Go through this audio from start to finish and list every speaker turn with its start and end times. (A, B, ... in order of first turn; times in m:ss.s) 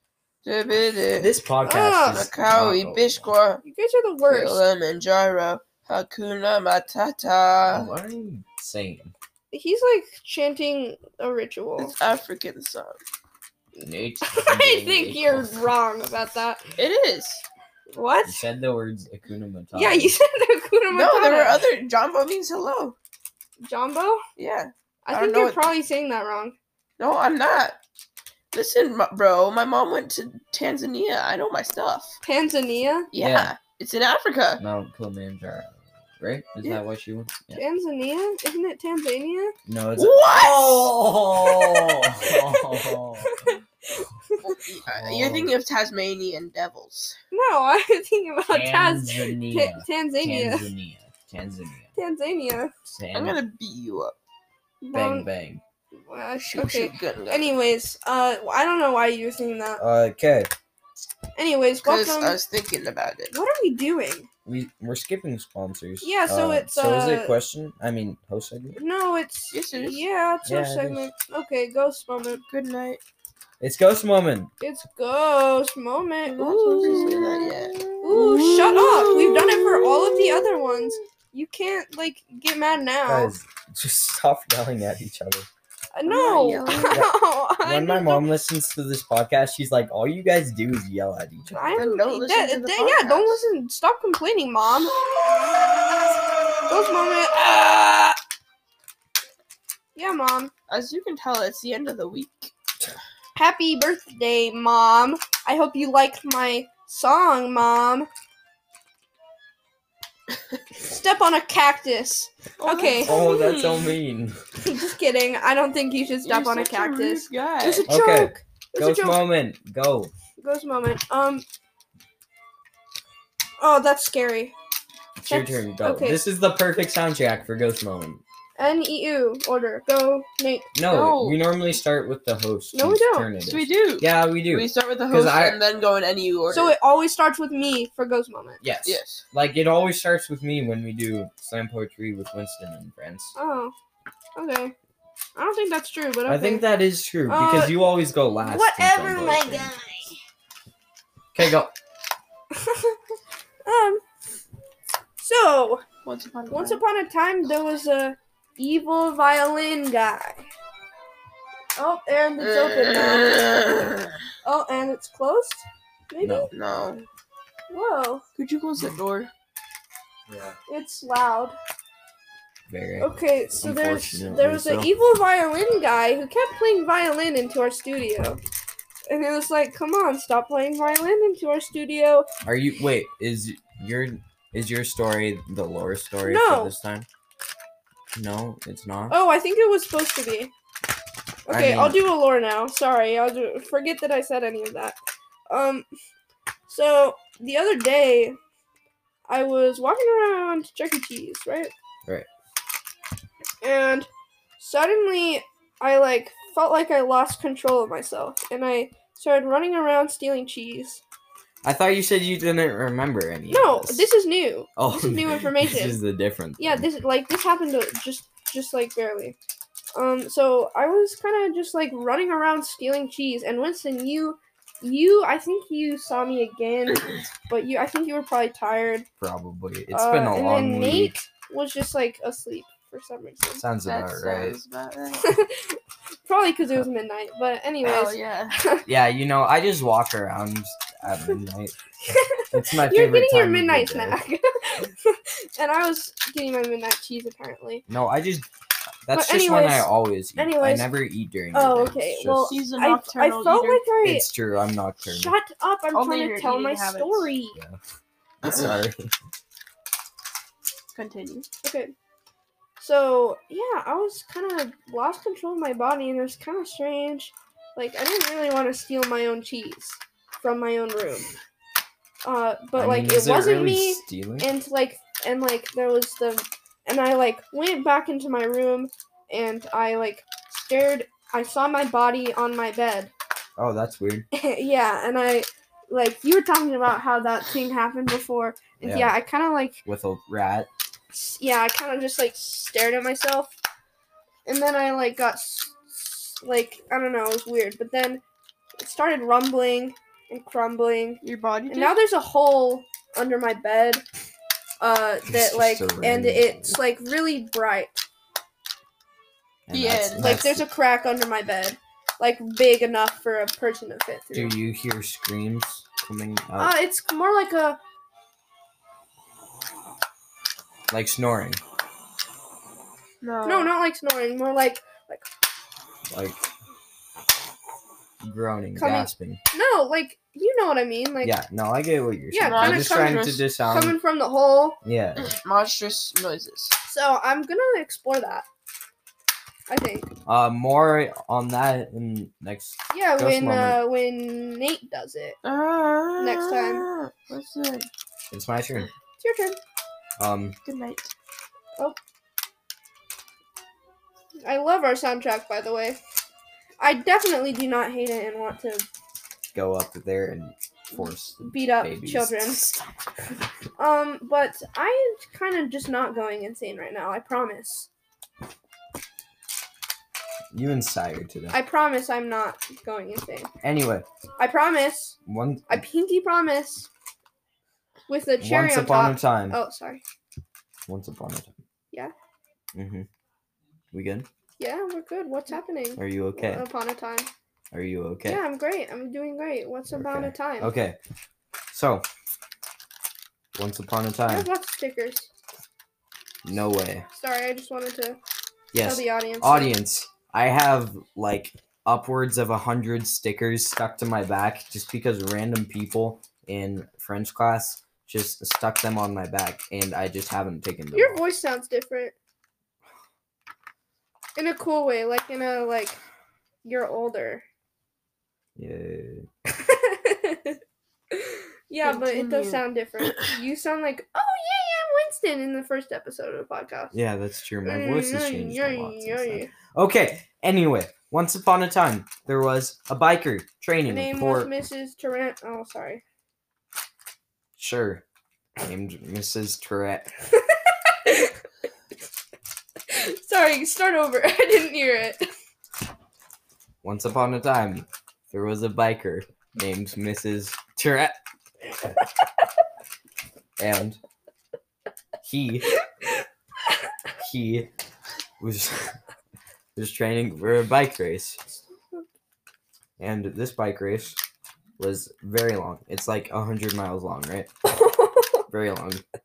0:00.4-0:01.3 A
0:01.2-0:03.3 B
0:01.6-0:02.2 C
0:02.1-0:03.6 A
0:03.6-0:04.6 C
0:04.3-0:07.9 A
0:07.7-0:09.1 B
0:09.5-0:11.9 C
0:11.8-0:13.0 A
0:13.8-0:15.6 B
0:14.2-0:16.6 C
0:16.8-0:17.4 A
0:17.9-0:18.4 C
0:18.2-0:20.2 B
0:19.7-0:21.6 C
0:20.9-0:23.0 A
0:23.6-0:24.2 C
0:24.4-0:25.7 A
0:25.1-0:26.6 C
0:27.0-0:27.8 A
0:28.5-0:32.2 A
0:32.2-0:33.1 C
0:33.1-0:34.6 A
0:33.2-0:33.5 B
0:34.6-0:37.6 B
0:37.5-0:39.6 C
0:39.7-0:43.6 B
0:40.0-0:40.9 A
0:42.2-0:44.6 C
0:44.4-0:47.2 A
0:44.9-0:45.6 B
0:47.3-0:50.7 C
0:48.5-0:51.9 B
0:52.0-0:52.7 C
0:52.8-0:53.4 B
0:53.1-0:54.2 A
0:54.8-0:55.3 C
0:54.9-0:55.6 B
0:56.1-0:59.8 C
0:56.5-0:57.5 A
0:59.8-1:00.5 B
1:01.4-1:02.4 C
1:01.8-1:03.3 A
1:03.3-1:04.3 C
1:04.5-1:08.8 B
1:06.0-1:07.4 C
1:08.8-1:12.4 C
1:09.5-1:10.0 A
1:10.5-1:11.1 B
1:12.4-1:13.0 A
1:13.6-1:14.5 B
1:14.6-1:23.4 C
1:16.3-1:21.0 A
1:23.1-1:25.5 B
1:25.9-1:28.3 C
1:26.1-1:27.0 A
1:27.6-1:31.8 B
1:31.5-1:35.0 C
1:31.7-1:33.4 A
1:36.7-1:38.2 C
1:40.0-1:40.5 C
1:40.7-1:42.5 A
1:43.4-1:48.1 C
1:50.8-1:53.2 C
1:52.6-1:54.0 A
1:53.0-1:54.4 B
1:54.6-1:59.2 C
1:56.2-1:57.9 A
1:57.9-2:00.1 B
2:00.4-2:01.5 C
2:03.6-2:04.5 C
2:05.2-2:08.2 B
2:05.3-2:06.2 C
2:08.6-2:10.7 C
2:10.7-2:15.6 B
2:10.8-2:11.4 A
2:12.7-2:13.3 C
2:13.4-2:16.7 A
2:16.5-2:18.6 C
2:18.6-2:23.4 B
2:18.8-2:19.2 A
2:23.4-2:23.7 C
2:24.4-2:24.8 C
2:25.4-2:26.7 C
2:26.3-2:29.9 B
2:27.3-2:27.9 C
2:28.4-2:30.1 C
2:31.3-2:31.7 B
2:32.5-2:33.0 C
2:33.6-2:34.0 C
2:35.2-2:35.8 C
2:36.0-2:36.8 A
2:36.5-2:40.5 C
2:41.8-2:43.4 C
2:42.4-2:44.1 A
2:44.4-2:46.5 C
2:46.2-2:46.5 B
2:46.5-2:47.1 A
2:47.7-2:48.2 C
2:48.4-2:49.3 A
2:50.3-2:50.6 B
2:50.7-2:51.6 C
2:52.7-2:54.9 B
2:53.0-2:58.4 C
2:59.1-3:02.3 C
3:02.4-3:07.1 B
3:06.2-3:06.7 C
3:08.1-3:09.2 B
3:09.1-3:10.5 C
3:11.5-3:15.0 C
3:11.5-3:12.0 B
3:15.5-3:15.9 C
3:16.7-3:18.4 C
3:19.3-3:21.7 C
3:23.6-3:31.0 C
3:31.6-3:34.1 B
3:33.5-3:36.0 C
3:34.8-3:36.9 B
3:36.6-3:39.4 C
3:39.9-3:49.1 C
3:49.2-3:51.1 B
3:49.9-3:53.7 C
3:53.6-3:54.6 B
3:53.9-3:55.4 A
3:55.2-3:58.8 C
3:57.8-3:58.6 A
3:58.9-4:01.8 B
4:02.1-4:07.8 C
4:02.5-4:04.2 B
4:07.9-4:08.5 B
4:09.0-4:12.6 B
4:09.1-4:10.9 C
4:11.5-4:14.3 C
4:12.5-4:13.8 A
4:14.0-4:15.4 B
4:15.0-4:17.6 C
4:15.9-4:17.3 A
4:18.4-4:19.1 B
4:20.9-4:21.5 A
4:21.6-4:21.9 C
4:22.8-4:31.3 C
4:32.2-4:43.1 C
4:32.8-4:34.5 B
4:43.6-4:44.3 B
4:44.3-4:49.8 C
4:48.8-4:49.2 B
4:49.8-4:50.7 B
4:51.1-4:53.5 C
4:54.5-4:58.2 C
4:58.8-5:04.0 C
5:01.2-5:02.0 A
5:04.8-5:08.0 C
5:05.3-5:06.8 B
5:09.7-5:10.7 B
5:09.7-5:10.4 A
5:10.2-5:14.6 C
5:14.3-5:16.8 B
5:16.6-5:17.8 C
5:20.9-5:21.6 B
5:23.2-5:23.7 A
5:23.4-5:25.3 C
5:26.1-5:26.4 B
5:28.2-5:29.4 B
5:28.8-5:31.4 C
5:31.2-5:34.0 B
5:32.3-5:34.8 C
5:32.4-5:33.4 A
5:34.8-5:35.3 B
5:35.2-5:36.8 A
5:36.8-5:38.5 C
5:39.7-5:40.1 C
5:40.3-5:43.8 B
5:42.9-5:45.4 C
5:45.4-5:47.9 A
5:46.2-5:46.9 C
5:48.3-5:48.9 B
5:49.2-5:49.6 C
5:50.2-5:50.6 B
5:50.6-5:51.1 A
5:54.4-5:56.0 C
5:56.8-5:58.9 C
5:59.5-6:02.9 B
6:00.9-6:02.6 C
6:03.8-6:07.9 C
6:10.5-6:11.6 B
6:11.5-6:13.5 C
6:13.6-6:14.0 B
6:14.4-6:15.2 C
6:15.3-6:15.8 B
6:15.7-6:16.9 C
6:18.1-6:20.0 C
6:18.4-6:19.6 B
6:20.9-6:21.6 B
6:22.7-6:23.1 B
6:23.9-6:24.3 B
6:24.6-6:27.3 C
6:26.0-6:26.7 B
6:27.7-6:28.4 B
6:28.3-6:30.7 C
6:29.9-6:31.0 B
6:31.7-6:32.0 B
6:33.6-6:34.5 B
6:34.3-6:35.3 C
6:36.4-6:37.1 B
6:37.1-6:38.2 C
6:38.7-6:51.2 B
6:38.8-6:39.8 C
6:50.9-6:52.2 C
6:54.4-6:56.0 C
6:56.6-6:57.4 C
6:58.6-6:59.3 B
6:59.5-7:00.6 C
7:01.1-7:06.9 C
7:01.8-7:03.3 A
7:06.9-7:14.5 B
7:07.6-7:09.5 C
7:13.9-7:16.0 C
7:17.6-7:18.0 B
7:18.6-7:20.1 B
7:20.5-7:21.4 C
7:22.9-7:25.2 C
7:26.8-7:31.2 B
7:33.6-7:34.0 B
7:35.2-7:35.7 B
7:37.2-7:37.7 B
7:38.4-7:39.0 B
7:39.8-7:41.4 B
7:43.0-7:44.2 B
7:44.8-7:47.5 B
7:47.7-7:48.4 C
7:48.5-7:49.0 B